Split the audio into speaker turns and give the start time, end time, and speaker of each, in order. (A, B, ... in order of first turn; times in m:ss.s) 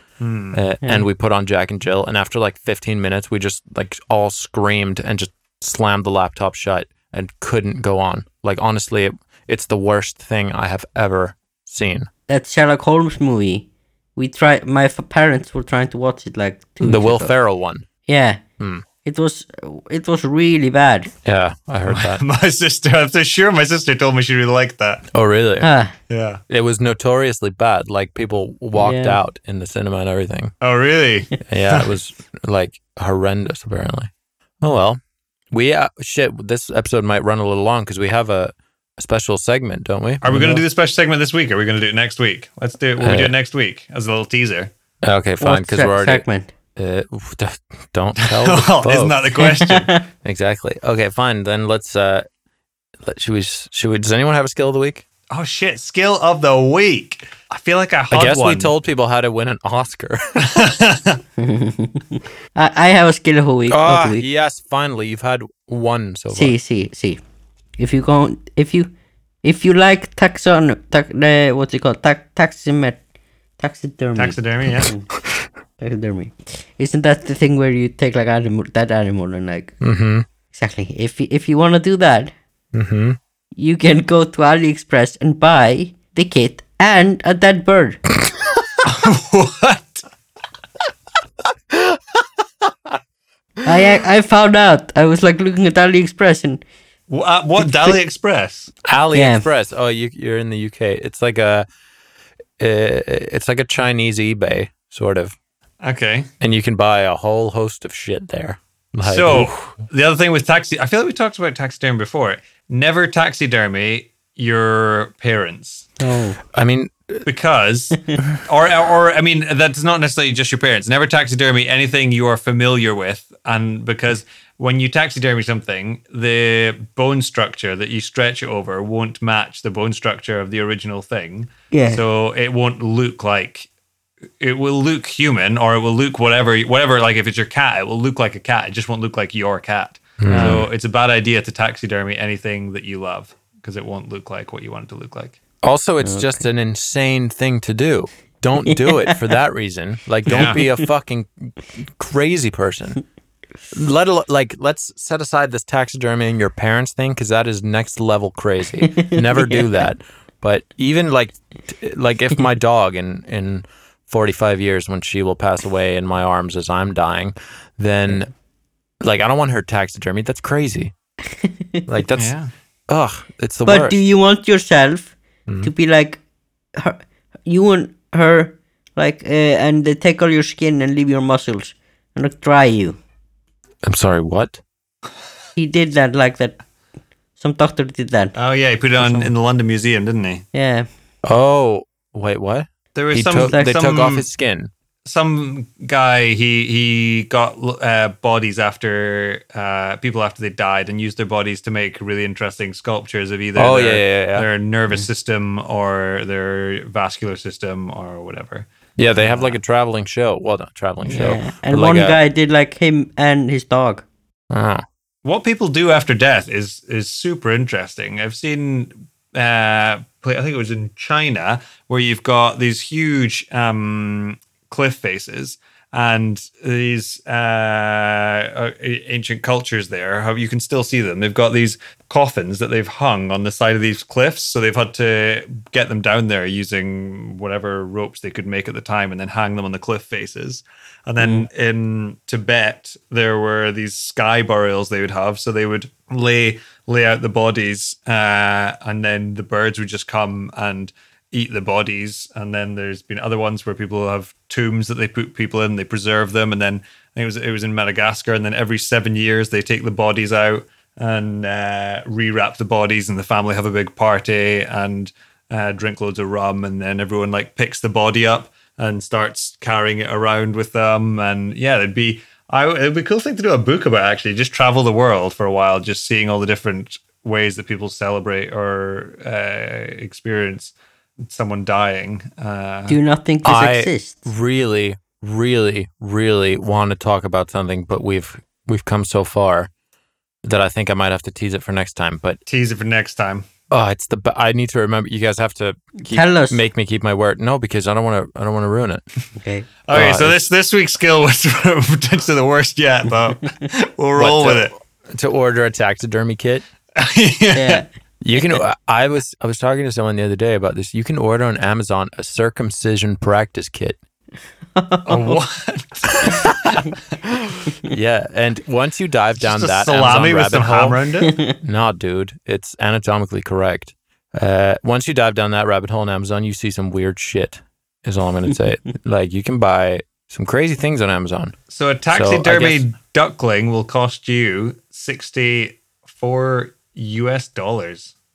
0:00.2-0:00.6 A
0:00.5-0:12.1 B
0:12.3-0:17.3 C
0:16.8-0:17.8 B
0:18.1-0:18.4 C
0:19.0-0:21.1 C
0:21.2-0:22.2 B
0:21.9-0:25.0 A
0:25.1-0:25.7 B
0:25.6-0:25.9 C
0:26.1-0:26.4 A
0:26.5-0:30.5 B
0:28.7-0:29.2 C
0:30.6-0:31.9 A
0:31.4-0:35.0 B
0:35.5-0:40.6 B
0:40.2-0:44.7 A
0:43.0-0:43.3 B
0:45.0-0:46.2 B
0:45.4-0:46.5 C
0:46.8-0:49.2 B
0:48.2-0:49.9 A
0:49.4-0:50.0 C
0:50.2-0:52.2 B
0:53.0-0:55.0 B
0:55.3-0:58.7 A
0:58.1-1:00.5 B
1:00.4-1:01.2 A
1:01.4-1:04.2 C
1:03.7-1:06.5 B
1:06.3-1:07.2 C
1:07.8-1:08.9 C
1:09.4-1:13.0 C
1:13.6-1:15.0 C
1:14.2-1:14.9 A
1:15.8-1:19.8 C
1:19.8-1:20.2 B
1:20.5-1:22.3 C
1:22.7-1:23.2 B
1:23.6-1:28.0 C
1:28.8-1:30.1 A
1:33.6-1:36.6 C
1:37.1-1:38.7 A
1:37.7-1:38.0 C
1:38.8-1:41.6 B
1:39.1-1:39.4 C
1:42.6-1:45.3 B
1:45.8-1:46.3 A
1:46.4-1:49.7 B
1:49.0-1:55.9 A
1:56.0-1:56.4 C
1:56.5-1:57.2 B
1:57.2-2:13.7 A
2:11.7-2:12.0 C
2:14.4-2:25.4 A
2:20.2-2:20.6 B
2:20.3-2:20.6 C
2:25.6-2:33.0 B
2:26.0-2:26.4 C
2:28.6-2:29.2 C
2:30.2-2:30.6 A
2:30.5-2:30.8 C
2:33.7-2:48.3 B
2:39.0-2:39.6 C
2:49.0-2:50.9 B
2:51.4-2:51.8 C
2:51.9-2:52.3 B
2:52.2-2:52.5 A
2:52.9-2:54.0 B
2:53.6-2:56.2 C
2:56.7-3:03.0 C
3:03.8-3:04.6 B
3:05.6-3:06.6 C
3:07.4-3:08.4 C
3:08.3-3:10.4 A
3:09.0-3:09.3 C
3:10.5-3:10.9 C
3:11.2-3:14.7 B
3:12.9-3:14.3 A
3:13.4-3:13.6 C
3:15.0-3:29.6 A
3:23.6-3:25.0 B
3:29.0-3:32.2 B
3:31.1-3:34.0 C
3:34.5-3:34.8 B
3:35.2-4:43.0 A
4:01.2-4:01.4 C
4:42.9-4:44.2 C
4:43.4-4:49.7 B
4:50.4-4:52.4 B
4:52.5-4:53.4 A
4:53.7-4:59.0 B
4:56.1-4:56.6 C
4:59.4-4:59.7 C
4:59.9-5:04.7 A
4:59.9-5:00.5 B
5:04.2-5:06.6 B
5:06.9-5:07.8 A
5:07.5-5:07.9 C
5:08.2-5:14.0 B
5:14.8-5:15.4 C
5:15.0-5:16.8 A
5:16.2-5:16.8 B
5:17.8-5:21.0 B
5:19.4-5:21.4 A
5:21.6-5:31.5 B
5:31.7-5:38.1 A
5:32.1-5:32.9 B